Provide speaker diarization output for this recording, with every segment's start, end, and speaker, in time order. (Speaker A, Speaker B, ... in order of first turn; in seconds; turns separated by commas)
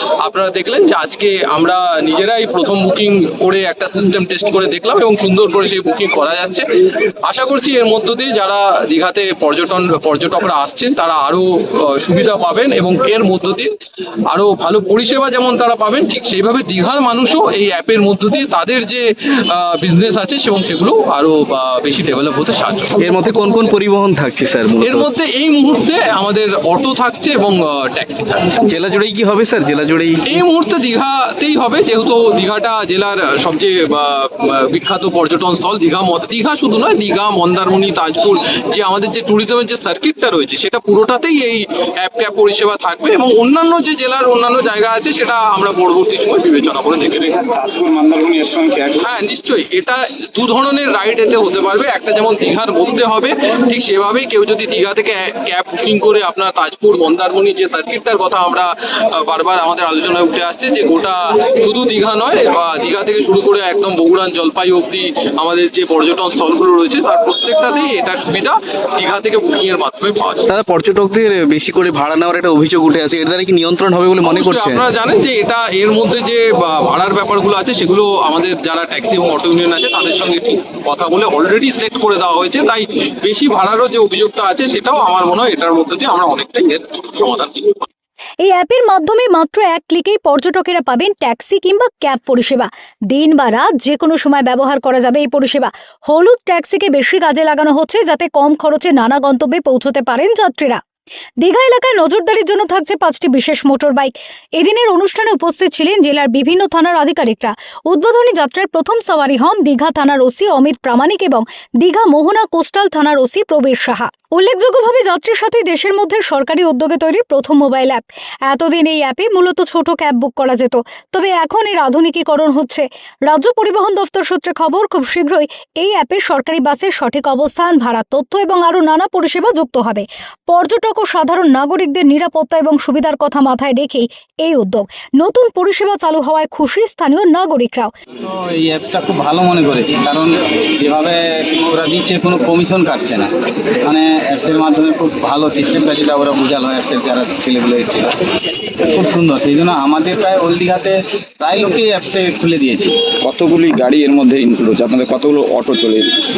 Speaker A: 0.2-13.7, Speaker A: 14.3-23.0, Speaker B: 23.0-25.1, Speaker A: 24.8-28.6, Speaker B: 28.6-30.3, Speaker A: 30.3-47.4, Speaker C: 47.3-49.1, Speaker A: 49.0-70.5, Speaker B: 70.5-74.8, Speaker A: 74.2-87.8, Speaker D: 88.4-100.8, Speaker D: 101.4-137.9, Speaker E: 138.2-143.3, Speaker E: 143.8-148.1, Speaker E: 148.9-152.9, Speaker C: 153.2-156.2